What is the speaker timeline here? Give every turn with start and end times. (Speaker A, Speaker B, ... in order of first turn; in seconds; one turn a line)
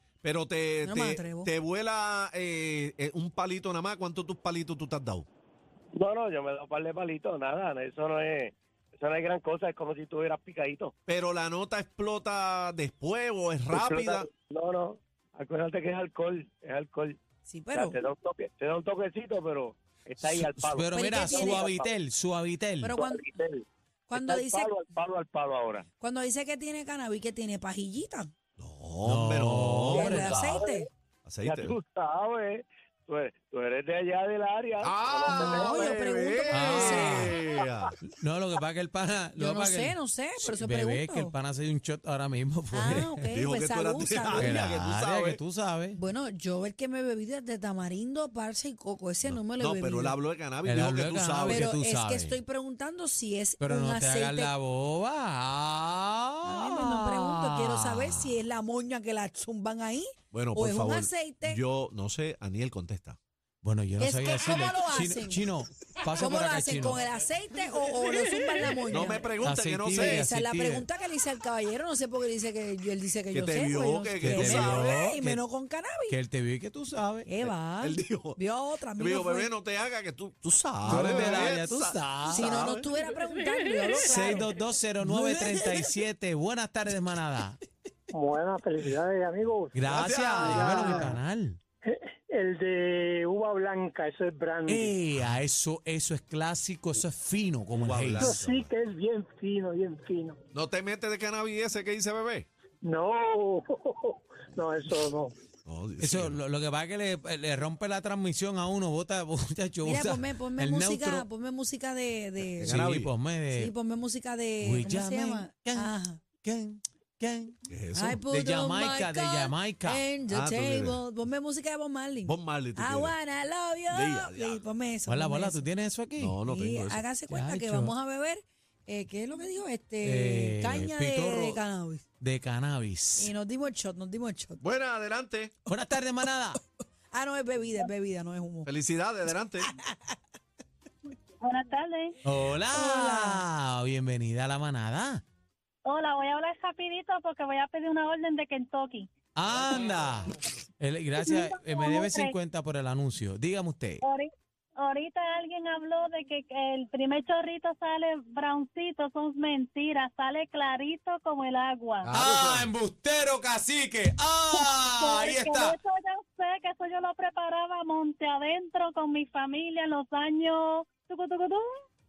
Speaker A: 0.2-5.2
Speaker B: 0.8-1.5
Speaker C: 5.9-10.9
Speaker A: 11.1-14.3
Speaker C: 13.7-17.2
Speaker B: 17.4-18.0
Speaker C: 17.7-20.9
Speaker D: 20.2-22.9
Speaker B: 20.9-21.7
Speaker C: 21.5-22.0
Speaker B: 22.8-23.4
Speaker C: 22.9-23.6
Speaker B: 24.1-24.7
Speaker C: 24.2-25.9
Speaker B: 26.0-28.3
Speaker A: 28.6-30.3
Speaker D: 29.0-30.6
Speaker B: 29.9-30.9
Speaker C: 30.0-30.8
Speaker A: 31.2-31.8
Speaker C: 31.8-35.7
Speaker A: 34.8-37.9
Speaker B: 35.2-37.4
Speaker D: 36.5-37.3
Speaker D: 38.0-43.3
Speaker B: 39.4-41.3
Speaker B: 42.7-44.7
Speaker A: 43.3-45.4
Speaker D: 44.4-46.0
Speaker B: 45.9-50.2
Speaker A: 49.6-51.7
Speaker D: 50.6-52.4
Speaker B: 51.5-54.5
Speaker D: 53.6-58.3
Speaker B: 56.4-61.6
Speaker A: 60.3-63.2
Speaker D: 63.6-67.0
Speaker B: 64.0-65.4
Speaker B: 66.2-69.3
Speaker A: 68.9-70.3
Speaker D: 69.4-70.9
Speaker B: 69.9-76.2
Speaker A: 73.3-74.9
Speaker D: 74.2-75.4
Speaker D: 76.1-77.3
Speaker B: 77.2-79.5
Speaker A: 77.4-78.4
Speaker A: 79.0-82.8
Speaker D: 80.8-82.5
Speaker B: 80.9-81.3
Speaker B: 82.3-84.5
Speaker D: 84.0-87.6
Speaker E: 85.0-85.8
Speaker E: 88.1-89.8
Speaker D: 89.7-91.6
Speaker A: 89.9-91.1
Speaker E: 90.4-91.2
Speaker E: 91.8-95.0
Speaker D: 94.7-98.4
Speaker A: 97.7-98.7
Speaker E: 98.2-100.4
Speaker A: 100.5-102.5
Speaker E: 102.8-105.3
Speaker A: 105.7-106.3
Speaker D: 106.0-111.3
Speaker B: 109.8-112.8
Speaker A: 112.6-113.1
Speaker D: 112.6-113.7
Speaker B: 113.5-116.2
Speaker D: 114.6-117.5
Speaker A: 117.7-118.2
Speaker B: 117.9-125.7
Speaker D: 118.3-120.1
Speaker A: 120.3-121.0
Speaker A: 122.2-123.2
Speaker A: 123.9-124.6
Speaker D: 125.1-126.3
Speaker A: 126.2-127.0
Speaker B: 126.4-132.0
Speaker D: 127.3-127.9
Speaker D: 130.0-131.6
Speaker D: 132.2-133.3
Speaker B: 133.2-134.6
Speaker A: 134.6-135.5
Speaker D: 135.7-136.6
Speaker B: 137.1-138.7
Speaker A: 138.6-139.7
Speaker B: 139.7-139.9
Speaker F: 141.4-142.2
Speaker D: 142.2-145.2
Speaker B: 142.7-143.4
Speaker F: 145.8-149.1
Speaker D: 149.3-154.0
Speaker F: 151.2-152.3
Speaker F: 154.0-162.1
Speaker A: 162.0-162.7
Speaker D: 162.1-165.8
Speaker F: 164.5-171.6